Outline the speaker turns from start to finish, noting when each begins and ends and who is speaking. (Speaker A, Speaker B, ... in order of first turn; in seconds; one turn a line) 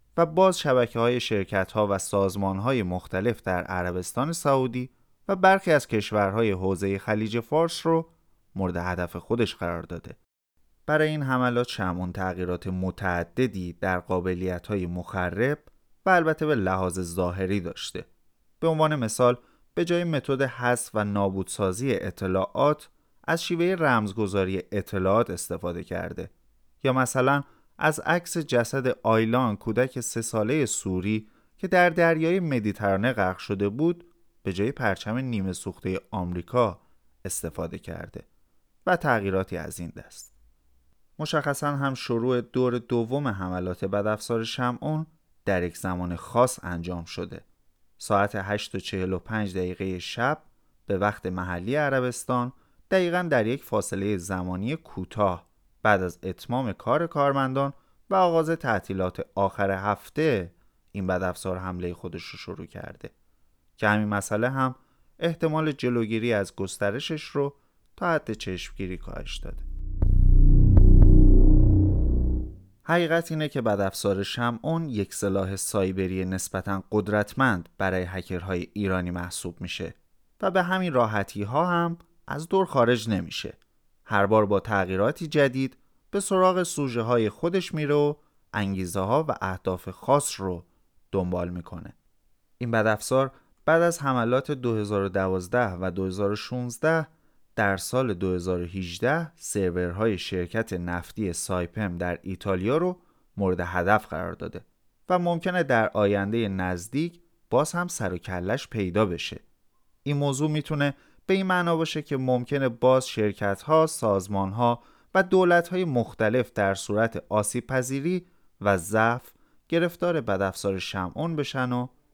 Speaker A: 0.1-10.2
Speaker A: 10.9-18.1
Speaker A: 18.6-38.2
Speaker A: 38.9-40.3
Speaker A: 41.2-47.4
Speaker A: 48.0-63.1
Speaker A: 63.8-69.7
Speaker A: 72.8-91.9
Speaker A: 92.6-109.4
Speaker A: 110.0-121.9